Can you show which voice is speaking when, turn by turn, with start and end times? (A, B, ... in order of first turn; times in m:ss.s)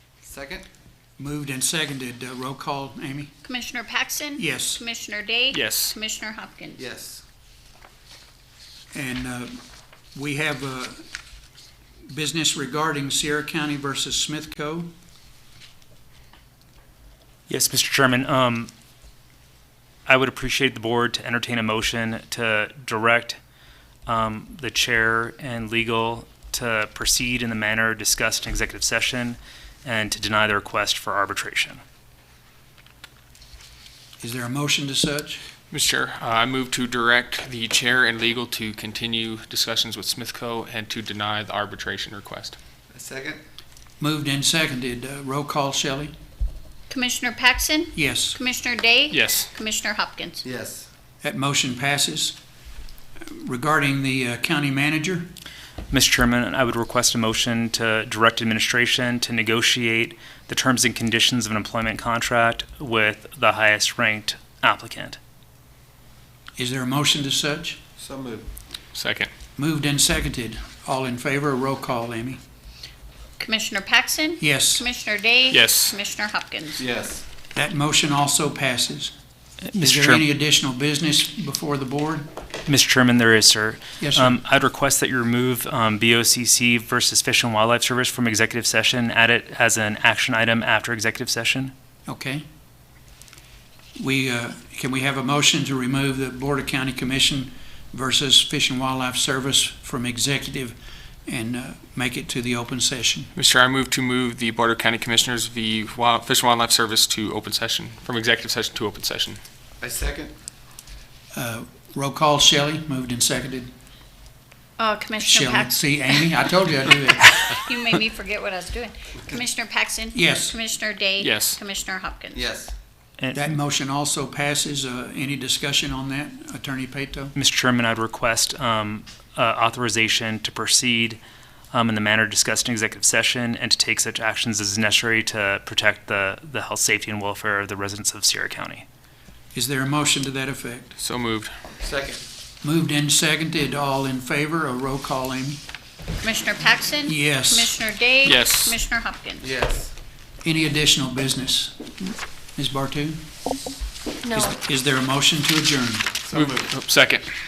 0:00.2-0:00.7 A
0:01.2-0:03.3 B
0:03.4-0:06.8 C
0:04.4-0:04.8 B
0:05.5-0:05.9 D
0:06.7-0:07.2 A
0:08.9-0:09.6 B
0:10.1-0:11.0 B
0:12.1-0:14.9 B
0:17.5-0:18.7 E
0:20.1-0:23.4 E
0:24.1-0:31.8 E
0:34.2-0:35.4 B
0:35.7-0:42.6 D
0:42.9-0:43.4 A
0:44.0-0:46.1 B
0:46.9-0:50.4 C
0:47.9-0:48.4 B
0:49.1-0:49.5 D
0:50.4-0:50.9 A
0:51.2-0:52.4 B
0:53.2-0:55.3 B
0:55.9-1:05.2 E
1:06.6-1:07.8 B
1:08.0-1:08.5 A
1:08.9-1:09.3 D
1:09.6-1:12.4 B
1:13.4-1:16.8 C
1:14.4-1:14.8 B
1:15.5-1:15.9 D
1:16.8-1:17.2 A
1:17.5-1:19.1 B
1:19.7-1:20.2 E
1:19.8-1:22.3 B
1:22.7-1:31.7 E
1:24.0-1:24.4 B
1:32.1-1:32.4 B
1:34.0-1:43.3 B
1:43.3-1:49.4 D
1:49.8-1:50.3 A
1:51.3-1:53.7 B
1:54.8-2:02.4 C
1:55.2-1:57.5 B
2:00.1-2:00.5 B
2:01.2-2:01.6 D
2:02.3-2:02.7 A
2:03.2-2:03.6 E
2:03.3-2:07.3 B
2:07.3-2:11.2 E
2:11.7-2:18.8 E
2:19.5-2:20.9 B
2:21.0-2:21.5 D
2:21.8-2:22.2 A
2:22.6-2:25.6 B
2:26.2-2:29.5 C
2:27.1-2:27.7 B
2:28.2-2:28.8 D
2:29.4-2:29.9 A
2:30.4-2:31.8 B
2:32.6-2:33.2 B
2:34.3-2:36.1 B
2:36.3-2:36.7 A
2:36.3-2:37.3 D